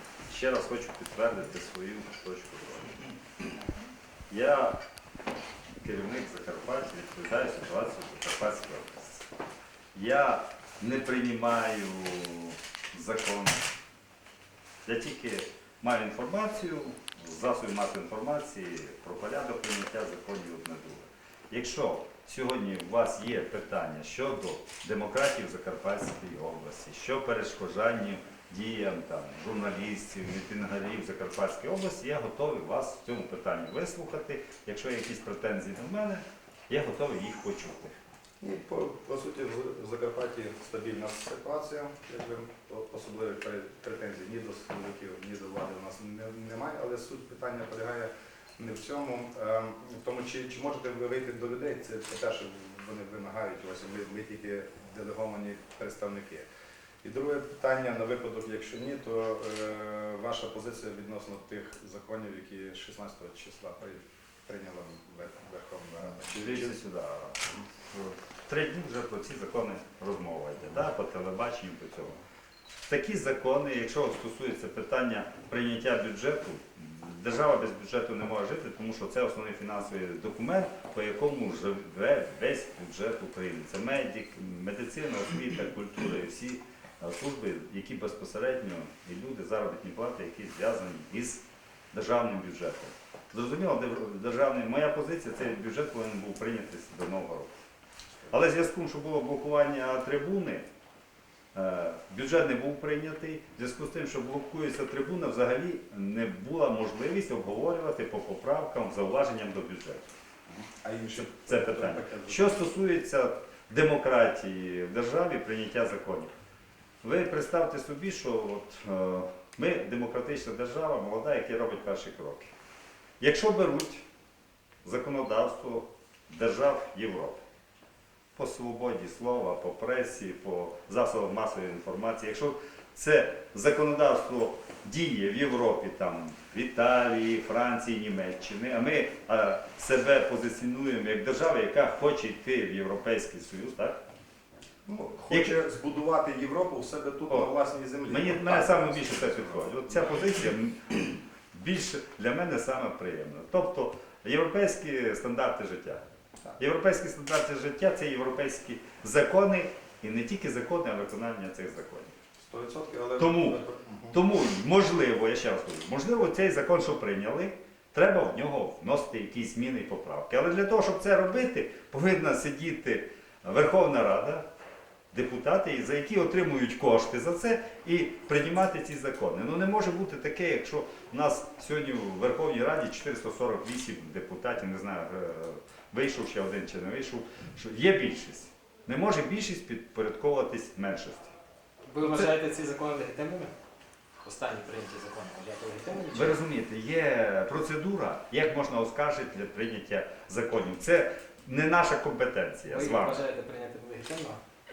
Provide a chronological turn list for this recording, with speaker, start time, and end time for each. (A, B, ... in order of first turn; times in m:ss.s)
0:00.3-0:03.0 A
0:04.3-0:04.8 A
0:05.8-0:09.2 A
0:09.9-0:13.6 A
0:14.8-0:37.9 A
0:38.4-0:56.5 B
0:57.0-1:06.8 B
1:06.2-1:12.2 A
1:12.8-1:37.5 A
1:38.3-1:40.7 A
1:41.5-1:50.1 A
1:50.5-1:52.7 B
1:51.2-1:56.3 A
1:57.0-2:02.5 A
2:03.2-2:04.0 A
2:04.8-2:07.4 A
2:08.3-2:24.0 A
2:24.8-2:29.7 B
2:25.3-2:25.6 A
2:28.1-2:36.0 A
2:36.6-2:42.1 A
2:42.4-2:44.2 B
2:43.2-2:43.6 A
2:44.1-2:54.4 A
2:55.1-3:11.3 A
3:11.8-3:13.5 C
3:14.2-3:16.4 C
3:16.1-3:23.2 A
3:22.7-3:24.4 C